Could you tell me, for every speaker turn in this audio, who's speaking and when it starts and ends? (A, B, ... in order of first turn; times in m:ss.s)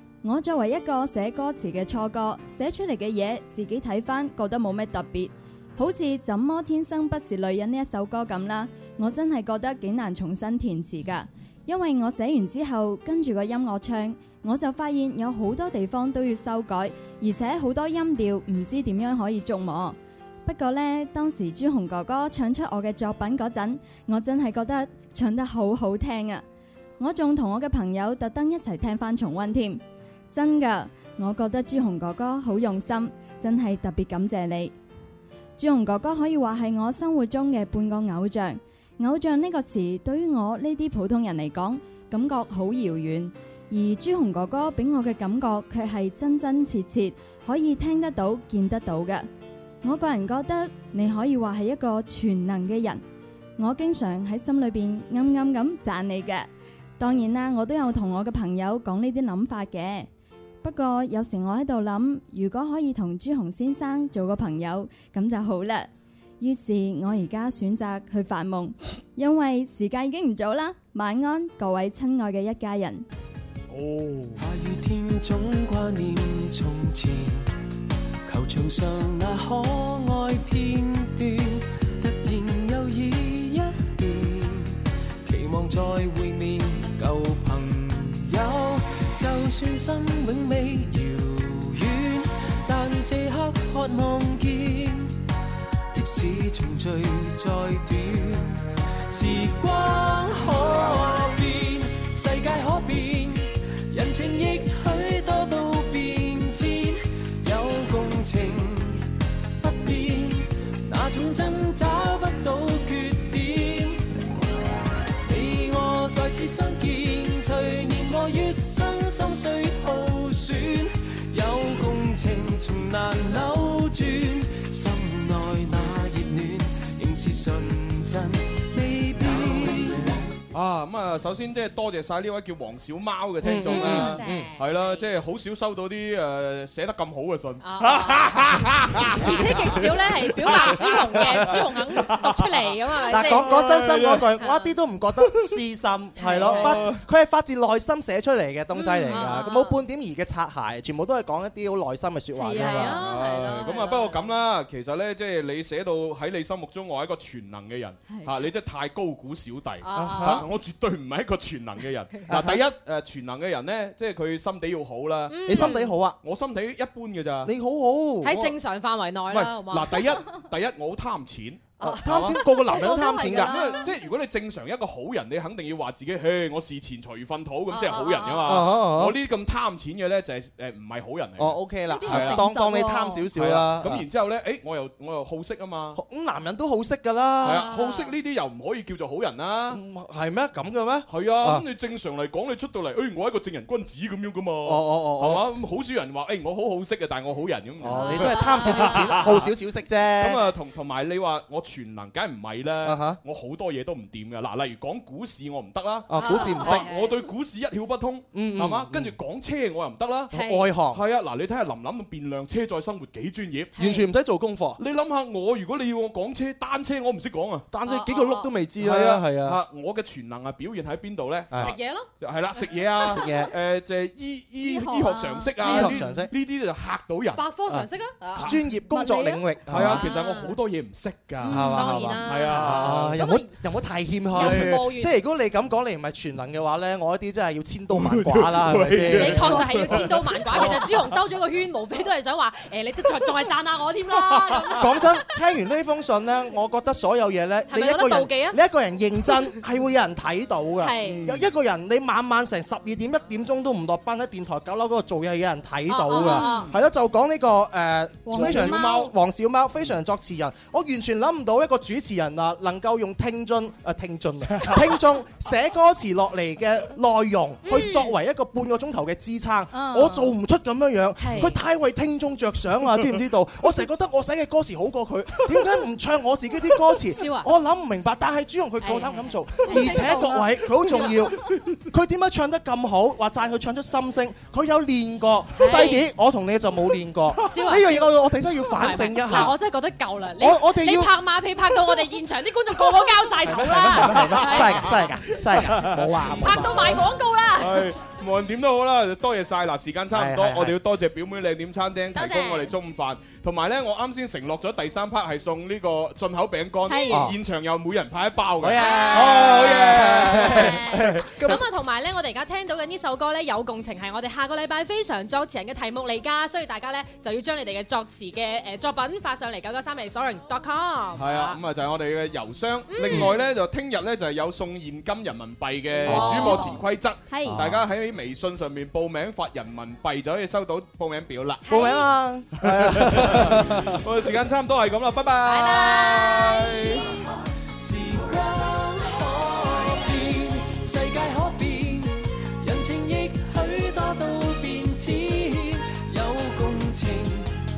0:00.2-0:26.4 A
0:27.0-0:29.8 A
0:30.3-0:34.7 A
0:35.6-0:49.3 A
0:49.8-0:53.0 A
0:53.6-0:56.5 A
0:57.0-1:00.1 A
1:00.6-1:05.9 A
1:06.4-1:13.0 A
1:13.7-1:14.4 B
1:14.4-1:17.5 C
1:18.2-1:35.2 C
1:35.9-1:49.1 C
1:49.6-1:54.1 C
1:55.2-2:10.3 C
2:10.5-2:24.3 B
2:13.4-2:14.5 D
2:13.7-2:15.1 E
2:17.6-2:18.5 E
2:19.2-2:23.7 E
2:23.1-2:33.0 D
2:24.4-2:24.7 E
2:25.2-2:25.6 B
2:26.2-2:26.8 E
2:26.4-2:27.0 B
2:28.7-2:29.9 E
2:32.3-2:32.9 A
2:32.5-2:34.4 E
2:32.8-2:47.5 B
2:39.8-2:40.5 E
2:40.0-2:40.4 D
2:42.3-2:42.6 D
2:45.3-2:46.0 E
2:45.4-2:46.2 D
2:47.4-2:48.4 D
2:48.2-2:50.2 E
2:49.3-2:52.4 B
2:51.8-2:52.2 E
2:51.8-2:53.8 D
2:52.5-2:53.9 A
2:53.4-3:02.5 B
2:57.7-2:58.6 E
2:58.4-2:59.2 D
3:01.4-3:04.0 D
3:01.9-3:03.3 A
3:03.3-3:06.0 B
3:05.9-3:07.7 D
3:07.4-3:08.1 E
3:07.4-3:09.8 B
3:09.7-3:11.6 D
3:11.1-3:19.5 B
3:14.6-3:15.4 D
3:17.8-3:20.4 D
3:17.8-3:19.0 E
3:20.2-3:33.7 B
3:22.8-3:23.2 D
3:26.1-3:26.9 D
3:26.1-3:27.3 E
3:28.3-3:29.1 D
3:30.3-3:31.0 D
3:30.3-3:30.7 E
3:33.7-3:34.0 E
3:33.8-3:34.8 D
3:34.8-3:37.7 B
3:37.7-3:39.6 D
3:37.8-3:38.5 E
3:38.8-3:47.5 B
3:41.5-3:43.4 E
3:43.1-3:43.5 D
3:44.6-3:46.0 E
3:45.6-3:46.3 D
3:47.3-3:50.6 E
3:48.3-3:48.6 B
3:48.4-3:50.0 D
3:48.9-3:49.4 A
3:49.7-3:53.2 B
3:51.4-3:53.5 E
3:51.5-4:00.8 D
3:54.3-3:55.1 E
3:54.3-3:54.8 B
3:57.9-4:01.2 B
3:59.1-4:05.2 E
4:04.2-4:04.9 B
4:04.8-4:49.5 D
4:07.7-4:08.6 E
4:10.8-4:11.2 E
4:11.0-4:11.5 B
4:15.9-4:16.7 E
4:16.2-4:16.6 A
4:18.2-4:18.7 A
4:18.3-4:19.1 B
4:18.5-4:19.1 E
4:27.6-4:28.1 E
4:29.7-4:30.3 A
4:31.2-4:31.6 E
4:37.0-4:37.5 E
4:38.8-4:41.2 E
4:39.7-4:40.4 A
4:45.5-4:46.0 E
4:47.4-4:57.9 E
4:50.4-4:51.1 D
4:53.4-4:56.9 D
4:54.0-4:54.9 B
4:55.5-4:56.8 B
4:57.6-5:11.6 B
5:00.1-5:00.8 D
5:02.1-5:02.7 E
5:06.9-5:07.2 A
5:07.1-5:07.4 D
5:08.6-5:11.6 D
5:08.8-5:21.6 E
5:21.2-5:31.6 B
5:22.9-5:23.3 E
5:26.0-5:26.8 E
5:26.0-5:26.6 D
5:27.3-5:27.6 A
5:27.4-5:27.8 D
5:31.6-5:32.1 E
5:31.7-5:34.0 D
5:32.6-5:37.1 B
5:35.4-5:37.2 E
5:37.8-5:47.6 C